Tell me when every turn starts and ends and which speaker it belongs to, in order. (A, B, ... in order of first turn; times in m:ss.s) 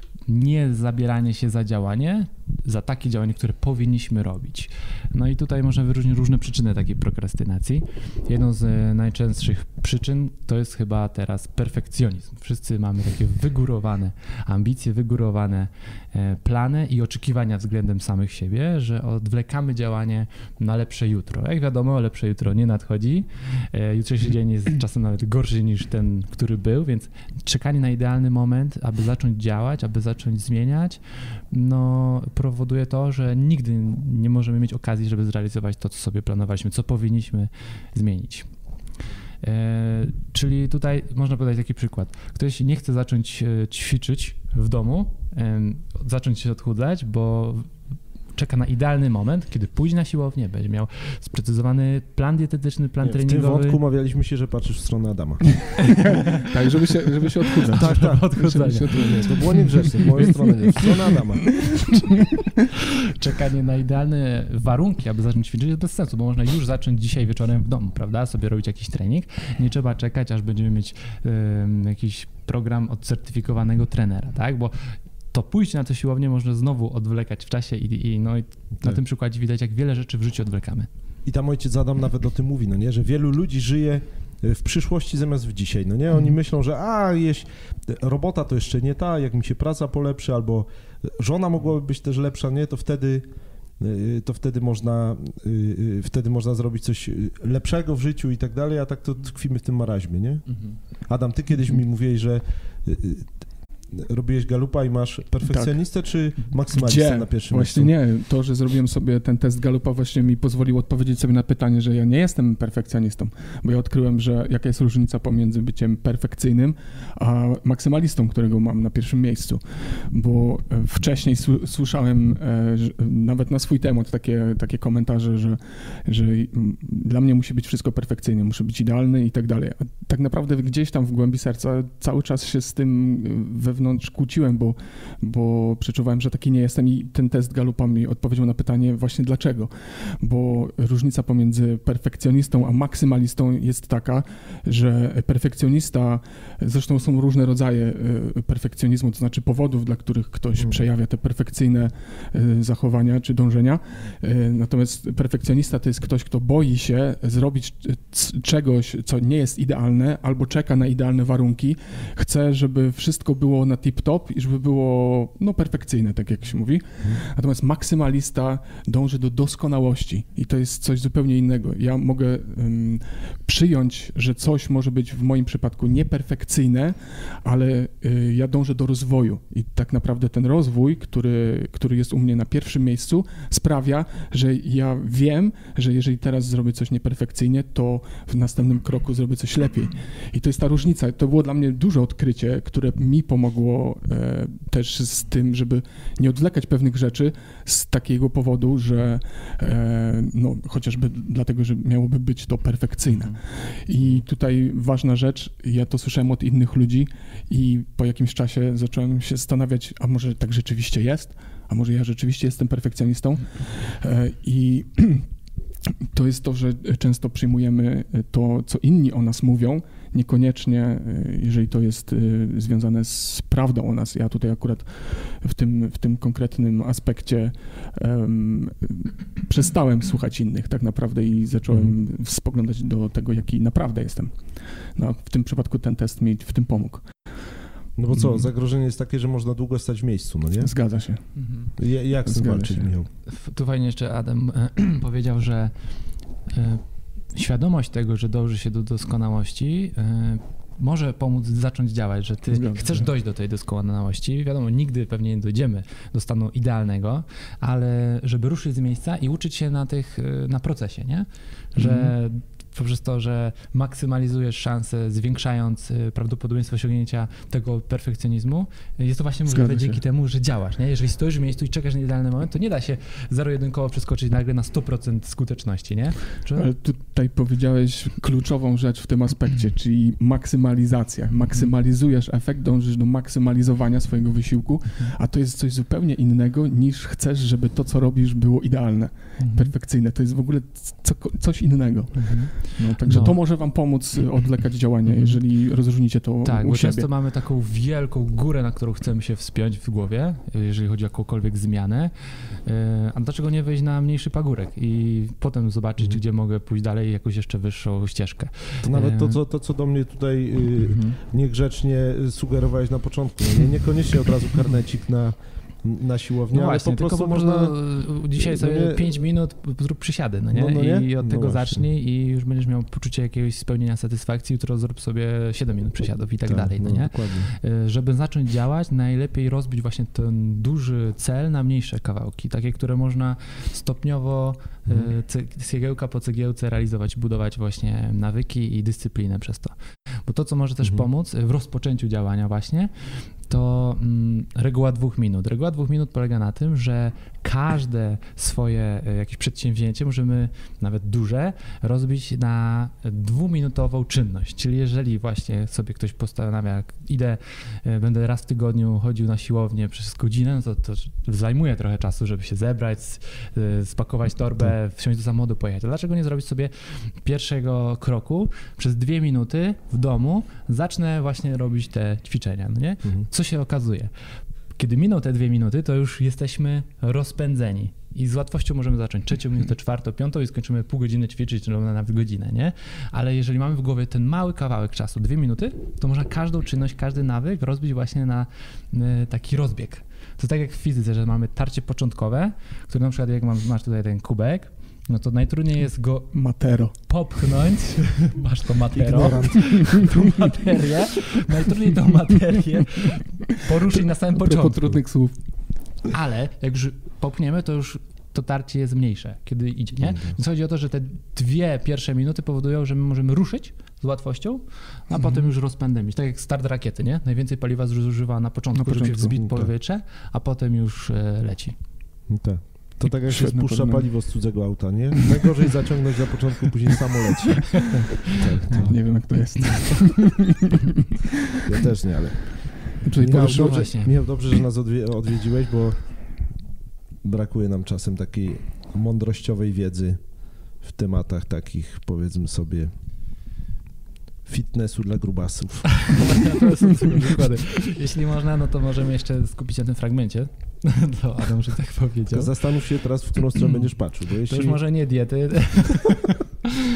0:00.3-0:38.5 A
0:39.4-0:47.7 A
0:48.3-0:53.8 A
0:53.0-0:55.7 B
0:56.0-0:56.4 A
0:56.4-1:00.9 C
0:57.6-1:00.4 A
0:57.7-1:01.7 B
1:03.2-1:20.9 A
1:21.2-1:43.3 B
1:43.9-1:47.9 B
1:45.5-1:45.8 C
1:46.7-3:35.3 C
3:23.1-3:23.4 A
3:36.1-3:57.3 C
3:58.0-4:00.8 B
4:00.6-4:01.2 C
4:01.4-4:01.7 A
4:01.8-4:03.1 B
4:02.2-4:02.9 C
4:03.2-4:05.7 A
4:06.5-4:36.7 A
4:12.5-4:13.1 C
4:21.8-4:22.1 C
4:29.5-4:30.0 C
4:36.6-4:57.1 C
4:49.4-4:49.7 A
4:52.1-4:53.4 A
4:55.0-4:55.4 A
4:56.4-5:09.4 A
5:08.8-5:19.1 B
5:10.8-5:11.2 A
5:16.5-6:14.1 A
5:20.5-5:21.9 B
5:26.5-5:27.5 B
5:40.8-5:41.1 B
6:14.8-6:45.4 A
6:36.3-6:36.9 C
6:38.9-6:40.1 B
6:44.4-6:45.4 C
6:46.1-7:01.8 A
6:50.0-6:50.4 B
6:55.1-6:55.4 C
6:58.7-6:59.4 C
6:59.4-6:59.7 B
7:02.3-7:09.0 B
7:03.0-7:04.1 C
7:08.7-7:10.4 C
7:11.6-7:16.3 B
7:13.0-7:13.9 C
7:13.2-7:14.2 A
7:17.2-7:20.2 B
7:20.8-7:22.9 B
7:24.4-7:26.2 B
7:26.0-7:32.5 A
7:32.3-7:34.8 B
7:33.6-7:33.9 A
7:34.4-7:36.4 A